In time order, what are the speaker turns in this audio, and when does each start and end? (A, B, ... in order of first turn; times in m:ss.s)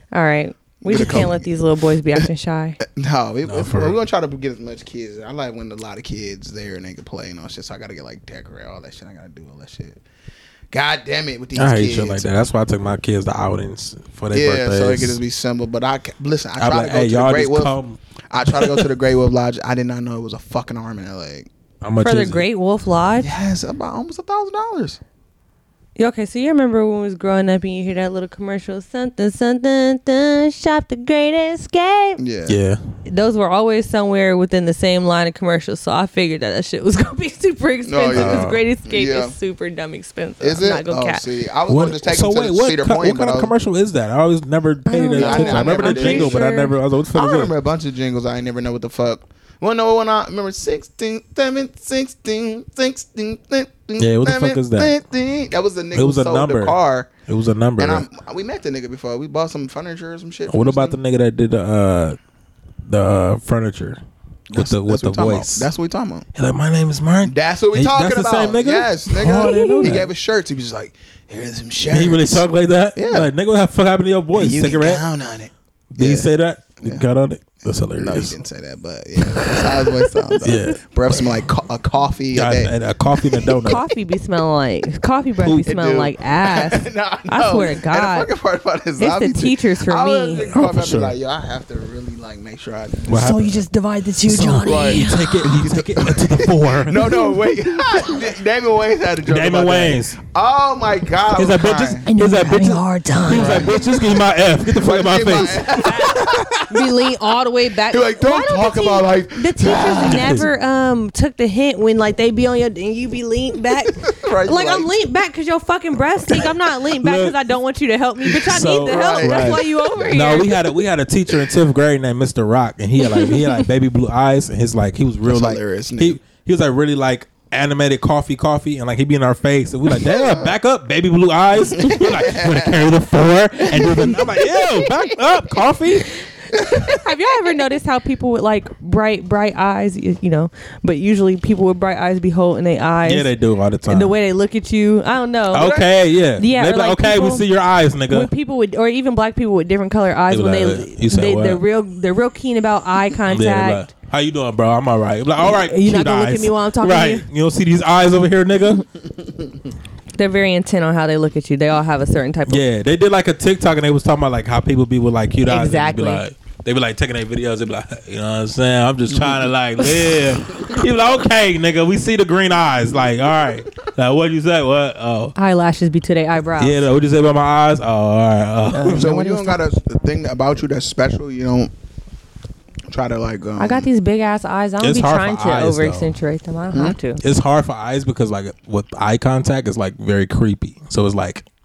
0:00.1-0:02.8 A
0:00.8-0:01.5 B
0:02.8-0:10.0 B
0:03.4-0:04.0 C
0:10.7-0:12.3 B
0:11.6-0:15.2 C
0:14.3-0:17.7 B
0:16.6-0:18.0 C
0:18.3-0:21.5 B
0:18.5-0:18.9 C
0:21.8-0:22.4 C
0:22.0-0:23.3 A
0:23.2-0:25.0 B
0:26.0-0:32.2 A
0:32.2-0:32.6 B
0:32.5-0:32.8 C
0:33.0-0:41.2 A
0:37.8-0:39.3 B
0:38.1-0:38.6 C
0:40.4-0:43.5 B
0:41.7-0:47.5 C
0:44.9-0:46.7 A
0:45.1-0:46.4 B
0:47.1-0:57.1 B
0:54.0-0:55.0 C
0:55.9-0:56.8 C
0:57.3-0:58.1 C
0:57.8-1:01.0 B
1:00.5-1:02.2 C
1:02.8-1:04.0 C
1:04.5-1:06.2 B
1:04.5-1:05.7 C
1:06.3-1:10.1 C
1:07.2-1:13.3 B
1:09.3-1:10.0 A
1:11.9-1:15.0 C
1:14.3-1:16.3 B
1:15.9-1:18.4 C
1:17.9-1:22.7 B
1:19.2-1:19.8 C
1:20.4-1:21.4 C
1:22.3-1:23.8 C
1:23.3-1:23.7 B
1:23.6-1:28.3 A
1:25.5-1:33.2 B
1:29.0-1:30.5 A
1:30.5-1:31.1 C
1:33.1-1:33.6 C
1:33.1-1:35.5 A
1:34.2-1:37.1 C
1:34.6-1:42.0 B
1:37.1-1:38.2 A
1:39.2-1:40.2 C
1:41.4-1:45.9 C
1:42.0-1:43.8 A
1:43.3-1:43.9 B
1:44.7-1:46.9 B
1:45.7-2:00.6 A
1:47.9-1:50.4 B
1:50.0-1:50.5 C
1:54.0-1:54.9 B
1:57.0-1:57.3 C
1:58.4-2:00.1 B
1:58.4-2:16.1 C
2:03.0-2:03.6 A
2:05.2-2:06.2 B
2:10.0-2:10.5 B
2:11.6-2:12.8 B
2:13.6-2:14.9 B
2:16.5-2:17.0 B
2:16.5-2:23.3 A
2:23.0-2:24.1 C
2:23.9-2:27.5 A
2:25.5-2:28.3 C
2:28.1-2:33.9 A
2:30.3-2:31.6 C
2:33.3-2:38.8 C
2:35.4-2:37.3 A
2:40.2-2:42.6 A
2:42.5-2:55.3 C
2:45.5-2:46.2 A
2:49.1-2:49.5 B
2:53.2-2:53.5 B
2:55.4-2:56.9 A
2:56.6-2:59.1 C
2:58.7-2:59.6 A
2:58.9-3:01.7 B
3:02.9-3:03.9 B
3:03.6-3:07.2 A
3:04.8-3:06.1 C
3:06.7-3:07.0 B
3:07.2-3:11.4 C